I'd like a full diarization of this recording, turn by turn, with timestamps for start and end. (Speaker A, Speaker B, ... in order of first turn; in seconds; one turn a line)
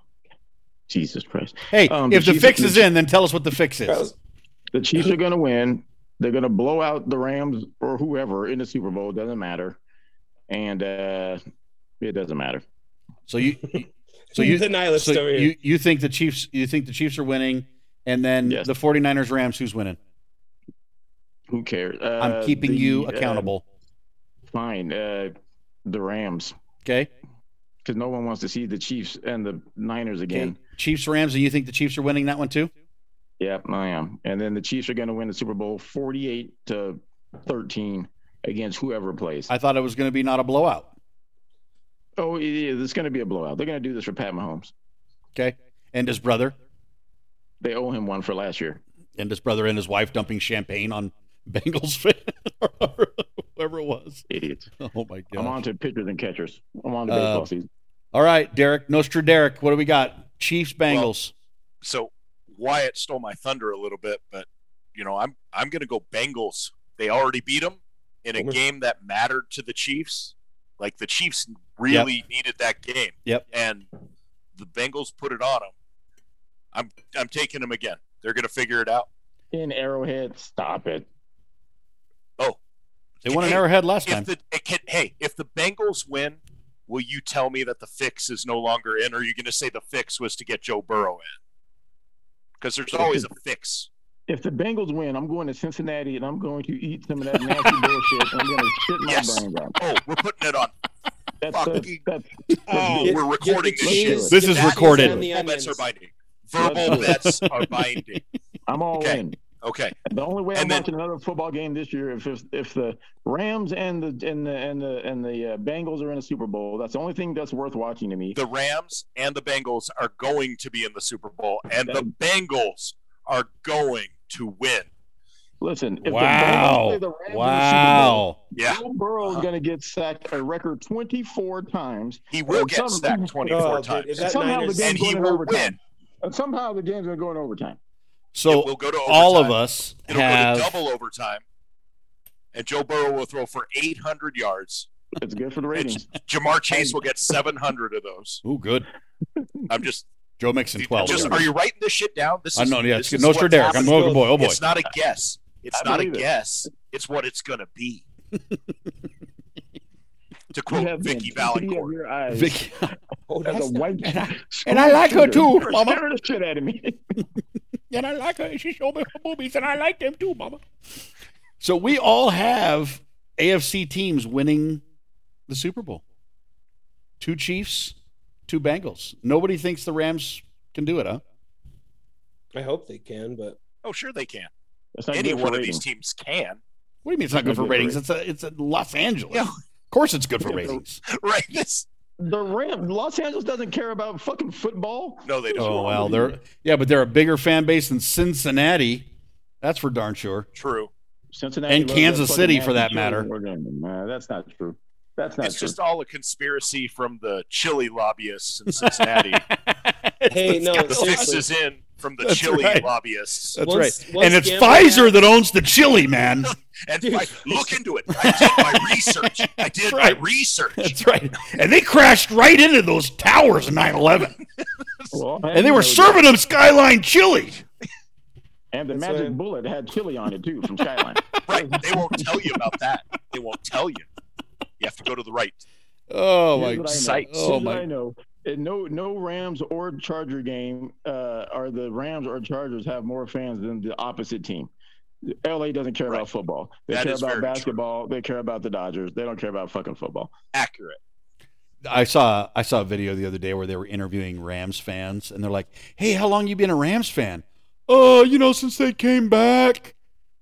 Speaker A: 0.9-2.9
Speaker B: 1.7-4.0
Speaker C: 3.9-4.1
Speaker A: 4.7-9.8
Speaker A: 10.5-11.4
Speaker A: 12.0-12.6
Speaker B: 13.3-20.0
Speaker C: 14.3-15.5
Speaker A: 21.5-23.5
Speaker B: 22.2-23.6
Speaker A: 24.5-25.3
Speaker A: 25.9-26.5
Speaker B: 26.8-27.1
Speaker A: 27.8-30.6
Speaker B: 30.3-32.7
Speaker A: 33.4-39.5
Speaker B: 39.5-40.9
Speaker A: 42.2-44.7
Speaker B: 45.3-46.5
Speaker A: 47.6-48.8
Speaker B: 49.2-54.3
Speaker A: 54.3-54.7
Speaker B: 54.8-55.6
Speaker A: 55.3-57.7
Speaker B: 57.1-57.5
Speaker B: 58.1-61.3
Speaker D: 61.8-73.9
Speaker D: 74.5-75.7
Speaker D: 76.7-79.1
Speaker A: 79.5-81.1
Speaker B: 83.2-84.3
Speaker D: 83.2-91.3
Speaker D: 92.6-93.9
Speaker A: 92.9-93.3
Speaker A: 94.3-99.8
Speaker D: 99.0-100.7
Speaker A: 101.4-104.4
Speaker D: 101.5-102.0
Speaker C: 102.7-105.8
Speaker D: 102.7-108.2
Speaker B: 104.3-105.2
Speaker A: 106.6-107.3
Speaker B: 106.9-107.9
Speaker A: 108.7-109.4
Speaker D: 109.0-110.0
Speaker A: 110.0-118.4
Speaker D: 110.5-110.8
Speaker D: 118.3-124.9
Speaker A: 125.6-133.5
Speaker B: 126.0-128.4
Speaker D: 128.6-129.4
Speaker D: 132.3-135.8
Speaker C: 133.4-135.0
Speaker A: 134.2-137.8
Speaker B: 138.3-140.7
Speaker D: 138.5-139.6
Speaker D: 140.1-141.4
Speaker D: 142.5-144.9
Speaker A: 145.2-146.1
Speaker D: 145.7-148.4
Speaker A: 146.7-147.0
Speaker B: 148.4-148.9
Speaker D: 149.7-150.1
Speaker B: 150.4-151.5
Speaker D: 150.8-158.1
Speaker A: 151.0-151.4
Speaker B: 152.5-154.6
Speaker C: 153.7-154.3
Speaker A: 155.7-156.3
Speaker B: 158.3-158.9
Speaker D: 160.5-161.9
Speaker A: 160.7-162.9
Speaker B: 162.3-162.9
Speaker C: 163.3-164.2
Speaker A: 163.4-167.0
Speaker B: 164.6-166.0
Speaker B: 167.9-170.6
Speaker B: 171.6-174.8
Speaker B: 175.5-176.0
Speaker B: 177.2-177.9
Speaker B: 178.5-181.2
Speaker C: 182.5-183.6
Speaker D: 183.8-184.5
Speaker A: 184.9-185.8
Speaker D: 185.1-186.6
Speaker B: 187.0-191.0
Speaker A: 187.3-188.0
Speaker A: 190.4-190.8
Speaker D: 191.0-191.8
Speaker A: 192.2-196.3
Speaker D: 195.2-196.1
Speaker B: 195.5-199.1
Speaker B: 199.6-200.5
Speaker D: 200.5-200.9
Speaker A: 201.3-205.8
Speaker B: 201.7-203.3
Speaker D: 205.4-209.4
Speaker B: 208.7-211.4
Speaker C: 210.3-211.4
Speaker D: 210.9-213.6
Speaker B: 212.2-212.9
Speaker B: 213.5-216.5
Speaker C: 213.6-215.2
Speaker D: 216.4-221.0
Speaker C: 217.0-217.8
Speaker B: 218.1-220.2
Speaker B: 220.8-224.4
Speaker A: 225.1-226.2
Speaker B: 225.5-227.6
Speaker A: 228.7-232.3
Speaker C: 228.9-229.4
Speaker D: 231.4-234.1
Speaker D: 234.8-235.6
Speaker B: 236.1-237.8
Speaker A: 236.5-244.7
Speaker D: 236.8-237.6
Speaker A: 245.2-250.3
Speaker D: 246.9-247.7
Speaker D: 250.5-251.0
Speaker B: 251.8-259.9